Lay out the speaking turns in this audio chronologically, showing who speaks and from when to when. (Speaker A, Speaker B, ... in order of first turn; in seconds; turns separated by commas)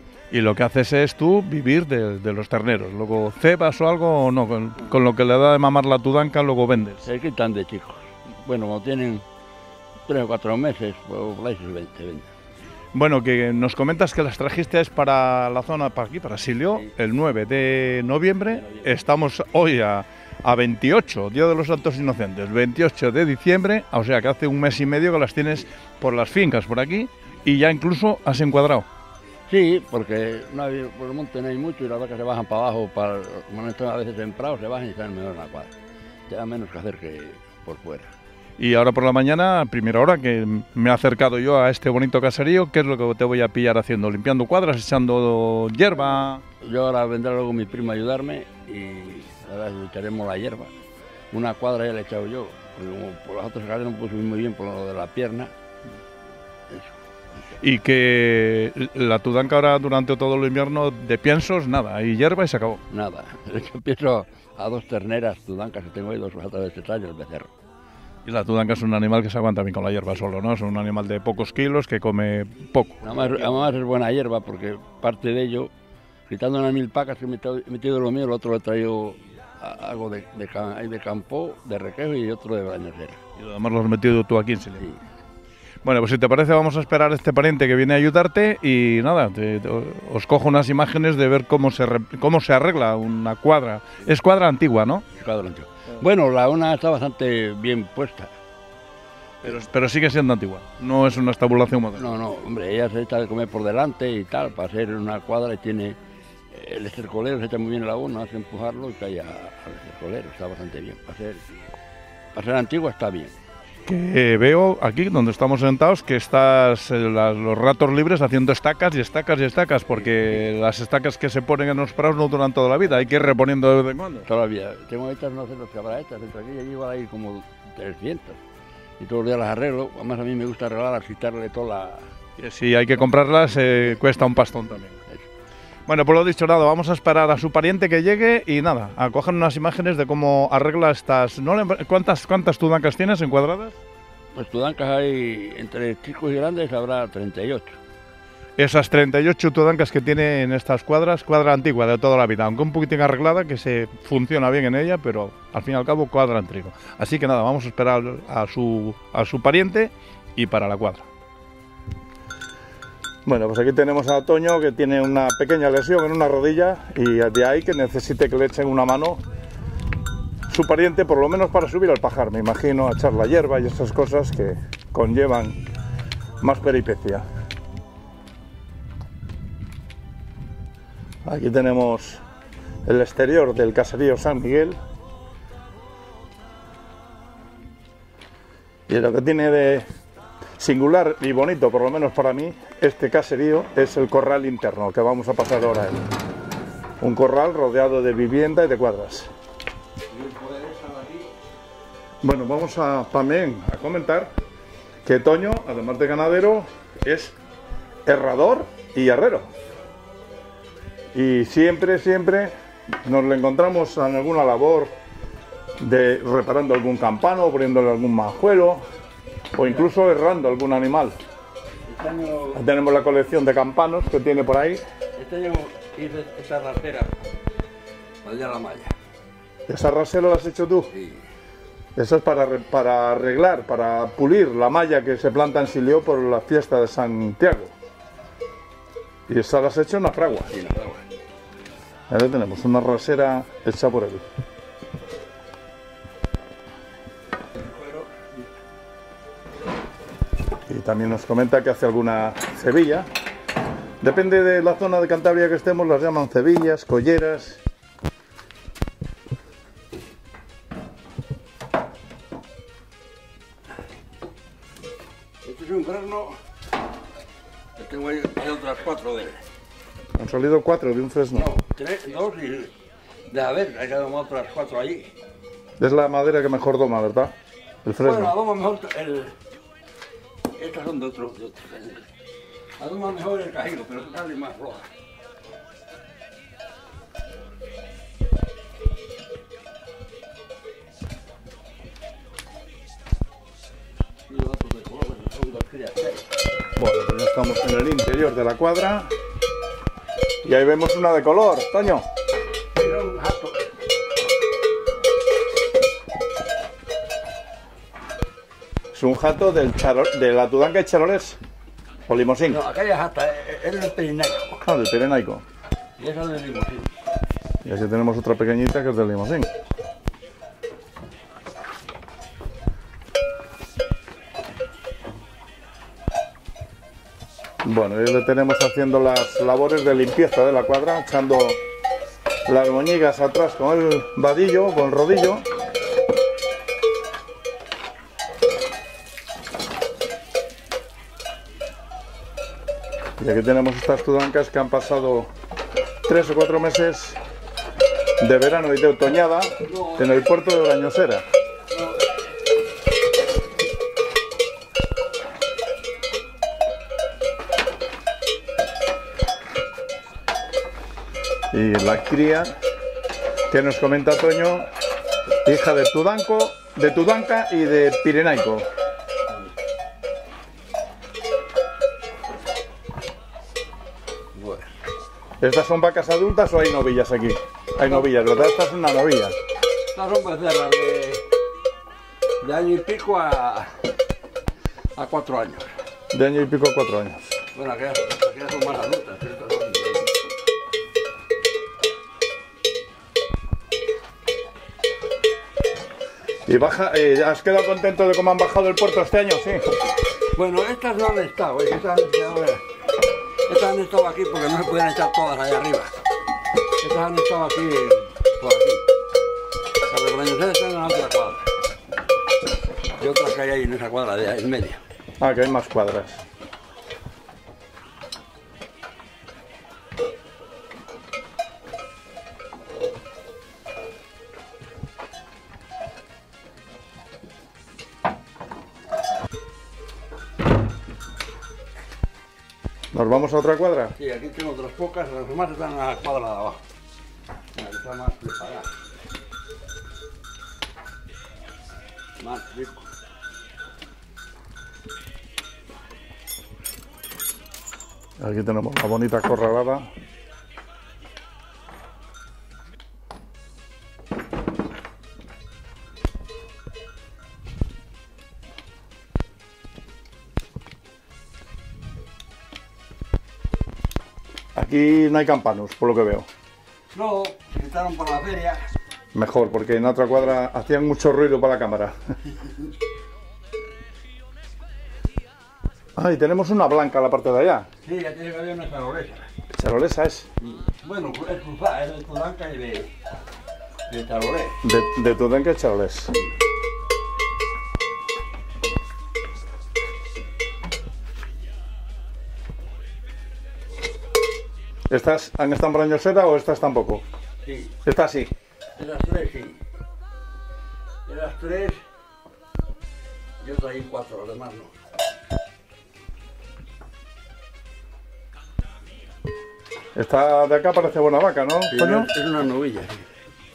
Speaker A: 0.3-7.1, Speaker B: 7.0-9.2, Speaker B: 10.1-12.3, Speaker A: 12.9-28.9, Speaker B: 18.5-18.9, Speaker B: 29.5-35.7, Speaker B: 36.3-38.1, Speaker A: 38.6-46.4, Speaker B: 46.6-50.7, Speaker B: 51.3-55.5, Speaker B: 56.7-57.0, Speaker A: 57.6-62.8, Speaker B: 62.9-67.6, Speaker A: 68.2-73.4, Speaker B: 73.0-75.7, Speaker B: 76.3-83.2, Speaker A: 83.4-84.9, Speaker A: 85.8-95.0, Speaker B: 95.1-98.3, Speaker A: 99.4-102.2, Speaker B: 101.9-106.0, Speaker B: 106.5-111.5, Speaker B: 112.3-113.4, Speaker A: 113.9-124.3, Speaker B: 120.0-120.3, Speaker B: 124.2-128.4, Speaker B: 129.0-132.1, Speaker A: 132.4-135.0, Speaker A: 135.9-143.8, Speaker B: 144.3-147.8, Speaker A: 148.6-161.1, Speaker A: 163.2-169.2, Speaker A: 170.5-175.6, Speaker A: 176.4-177.2, Speaker A: 181.2-182.2, Speaker A: 182.8-184.8, Speaker A: 188.9-189.9, Speaker A: 190.6-196.1, Speaker A: 197.0-199.3, Speaker B: 200.1-201.3, Speaker A: 202.2-204.3, Speaker A: 205.1-207.4, Speaker A: 208.1-209.5, Speaker A: 211.1-214.9, Speaker A: 215.8-218.8, Speaker A: 219.5-221.2, Speaker B: 221.9-222.6, Speaker A: 222.5-224.8, Speaker B: 225.2-227.2, Speaker B: 228.2-228.9, Speaker A: 229.7-230.9, Speaker B: 230.9-231.2, Speaker A: 231.9-237.7, Speaker A: 239.3-240.5, Speaker B: 240.5-241.1, Speaker A: 242.1-244.2, Speaker B: 247.5-248.5, Speaker A: 250.7-253.1, Speaker A: 254.0-257.6, Speaker B: 265.4-266.4, Speaker B: 267.8-269.4, Speaker A: 270.2-271.5, Speaker B: 271.3-272.7, Speaker B: 273.3-275.1, Speaker A: 275.8-277.3, Speaker A: 277.8-278.3, Speaker B: 278.0-279.4, Speaker B: 280.5-282.1, Speaker B: 282.8-284.9, Speaker B: 294.3-296.3, Speaker A: 296.8-299.1, Speaker A: 300.4-302.1, Speaker B: 302.7-303.7, Speaker A: 308.9-311.4, Speaker A: 312.1-312.6, Speaker B: 312.4-314.6, Speaker A: 314.6-315.4, Speaker B: 316.0-316.9, Speaker A: 317.6-319.5, Speaker A: 327.6-331.6, Speaker A: 332.4-335.4, Speaker A: 343.2-345.3, Speaker A: 346.1-347.2, Speaker A: 348.2-351.3, Speaker B: 349.6-350.2, Speaker B: 351.7-352.2, Speaker A: 361.5-362.6, Speaker A: 363.5-364.7, Speaker A: 365.4-368.7, Speaker B: 374.3-374.7, Speaker A: 375.4-379.4, Speaker B: 377.8-378.1, Speaker B: 379.9-381.2, Speaker B: 382.4-383.9, Speaker B: 384.9-385.7, Speaker A: 386.1-387.2, Speaker B: 387.5-390.1, Speaker A: 396.4-399.6, Speaker B: 400.3-402.6, Speaker B: 403.5-405.9, Speaker B: 406.8-408.8, Speaker B: 409.8-411.5, Speaker B: 413.0-414.8, Speaker A: 415.2-416.2, Speaker A: 432.9-433.9, Speaker B: 433.9-436.6, Speaker B: 437.5-438.7, Speaker B: 442.2-442.9, Speaker A: 448.2-449.9, Speaker A: 464.6-466.3, Speaker B: 466.9-468.7, Speaker A: 469.1-472.0, Speaker A: 475.9-477.7, Speaker B: 477.8-479.3, Speaker A: 479.5-480.3, Speaker B: 480.4-482.9, Speaker B: 483.9-484.6, Speaker A: 484.6-486.1, Speaker A: 494.9-497.1, Speaker B: 497.4-497.8, Speaker A: 497.8-498.3, Speaker B: 498.8-499.6, Speaker B: 501.1-501.8, Speaker B: 503.4-504.7, Speaker A: 509.9-512.1, Speaker B: 511.7-513.0